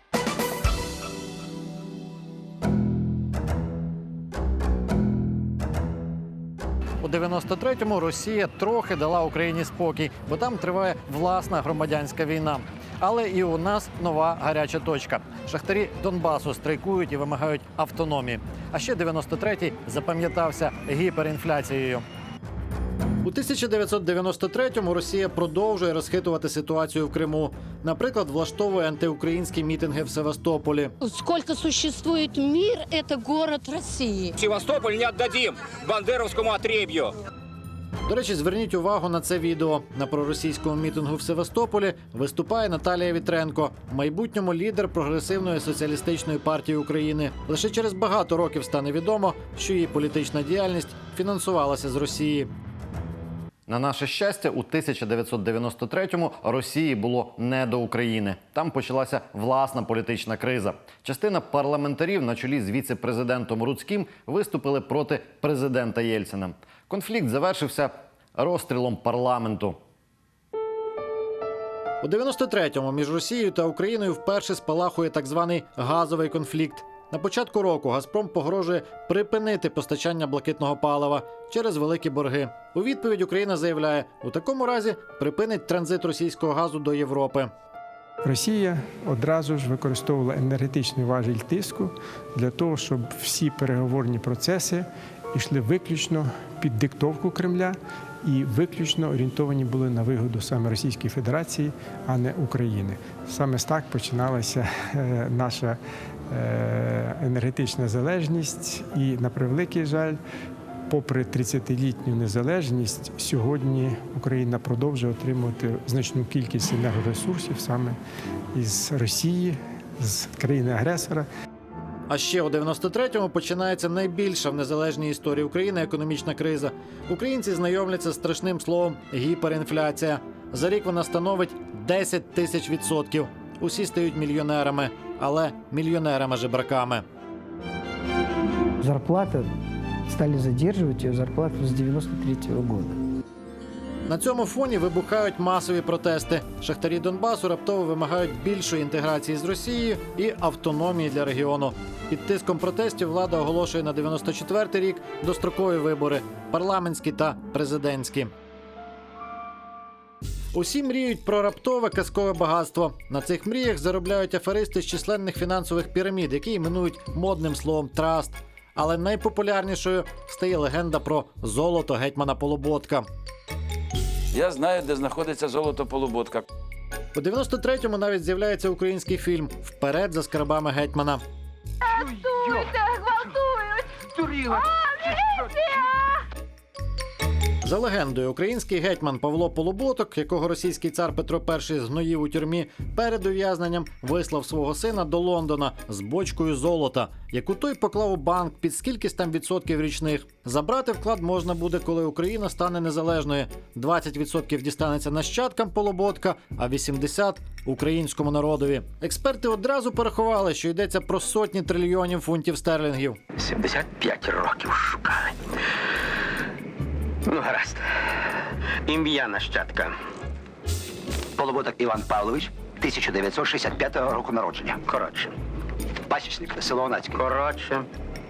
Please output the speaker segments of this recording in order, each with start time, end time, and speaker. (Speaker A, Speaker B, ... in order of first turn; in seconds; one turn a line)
Speaker A: 7.0-22.0
Speaker A: 23.2-30.9
Speaker B: 31.0-34.4
Speaker C: 34.4-37.1
Speaker A: 38.1-52.5
Speaker A: 53.7-69.8
Speaker A: 72.0-87.5
Speaker D: 88.2-105.8
Speaker D: 106.3-110.2
Speaker D: 110.9-118.0
Speaker D: 118.5-121.3
Speaker A: 122.1-137.0
Speaker E: 138.8-139.5
Speaker E: 140.1-143.0
Speaker A: 144.1-158.3
Speaker A: 160.5-173.1
Speaker F: 174.3-176.4
Speaker A: 177.1-181.2
Speaker B: 181.9-186.1
Speaker A: 187.6-213.2
Speaker G: 213.4-215.4
Speaker G: 217.2-218.1
Speaker G: 218.8-219.9
Speaker G: 221.3-225.3
Speaker G: 226.1-227.8